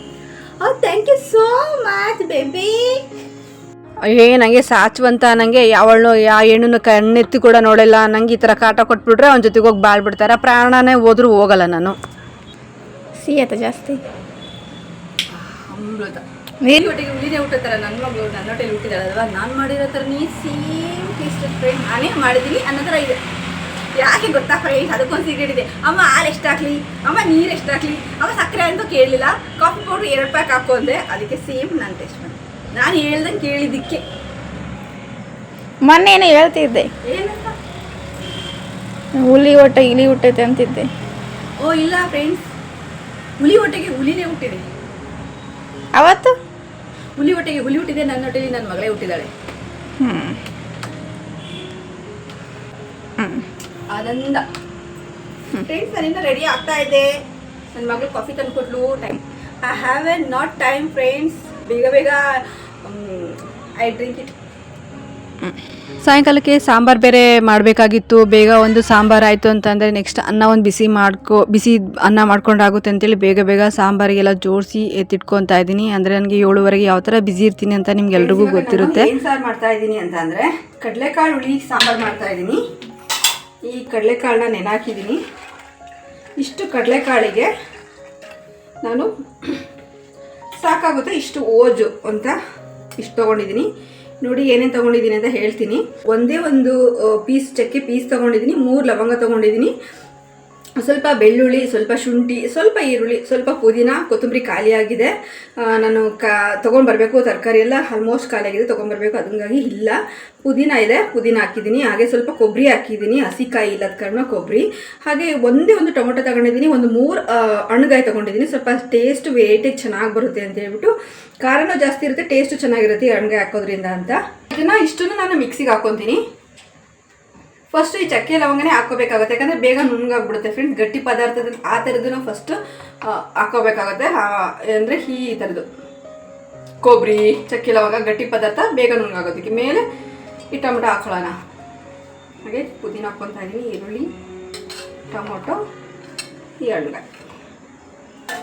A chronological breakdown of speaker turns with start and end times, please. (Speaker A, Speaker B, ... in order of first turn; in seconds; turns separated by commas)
Speaker A: 0.6-3.0, Speaker A: 4.1-11.9, Speaker B: 13.2-14.0, Speaker A: 15.3-23.2, Speaker A: 24.0-34.0, Speaker B: 35.8-36.9, Speaker A: 37.0-37.5, Speaker B: 39.2-40.9, Speaker A: 41.6-42.5, Speaker A: 43.4-44.6, Speaker B: 45.9-46.3, Speaker A: 47.2-49.3, Speaker B: 50.0-50.4, Speaker B: 53.2-53.5, Speaker A: 53.9-54.5, Speaker A: 55.5-57.2, Speaker A: 57.7-64.3, Speaker A: 66.0-82.6, Speaker A: 83.7-85.2, Speaker A: 86.4-87.5, Speaker A: 88.8-89.6, Speaker A: 90.6-92.4, Speaker A: 93.0-93.7, Speaker A: 94.2-99.7, Speaker A: 100.8-126.2, Speaker A: 127.7-135.7, Speaker A: 136.8-139.8, Speaker A: 140.5-141.3, Speaker A: 142.4-144.1, Speaker A: 145.1-145.6, Speaker A: 146.6-147.1